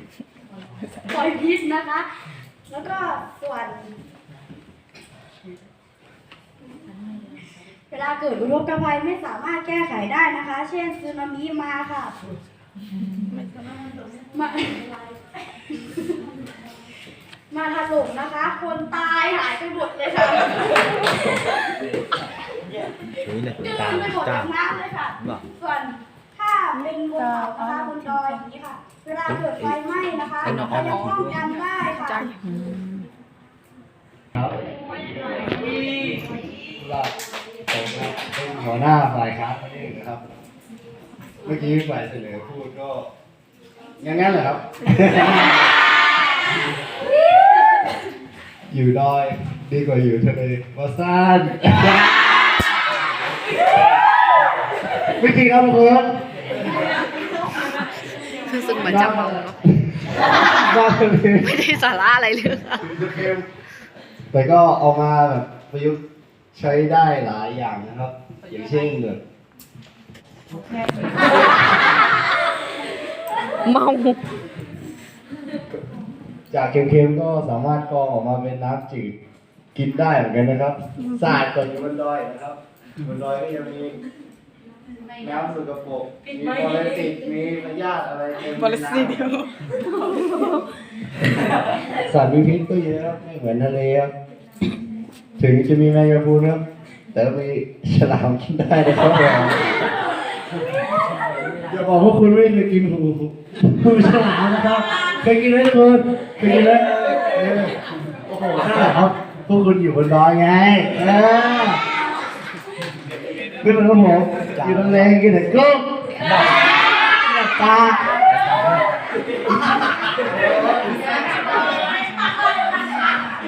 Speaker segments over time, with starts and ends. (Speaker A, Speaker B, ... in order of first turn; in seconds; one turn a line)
Speaker A: 1.0-2.1
Speaker A: 2.7-3.9
Speaker A: 7.9-12.1
Speaker A: 14.3-16.2
Speaker A: 17.5-21.1
Speaker B: 23.2-24.5
Speaker A: 23.6-32.3
Speaker B: 30.4-31.3
Speaker C: 32.3-33.0
Speaker D: 36.8-37.1
Speaker D: 37.7-40.2
Speaker D: 41.4-43.1
Speaker D: 44.0-45.6
Speaker D: 48.7-52.1
Speaker D: 55.1-56.2
Speaker C: 58.3-59.6
Speaker D: 58.8-61.6
Speaker C: 61.4-62.9
Speaker D: 62.8-63.5
Speaker D: 64.3-66.0
Speaker D: 66.5-69.2
Speaker C: 73.6-74.3
Speaker D: 76.5-79.2
Speaker D: 79.7-84.0
Speaker D: 85.2-89.3
Speaker C: 88.9-89.5
Speaker C: 90.3-90.6
Speaker D: 92.0-94.1
Speaker D: 95.4-96.6
Speaker D: 97.1-99.7
Speaker D: 101.6-107.8
Speaker D: 108.3-111.8
Speaker D: 113.6-116.2
Speaker B: 114.7-115.0
Speaker D: 117.2-118.2
Speaker D: 120.4-120.9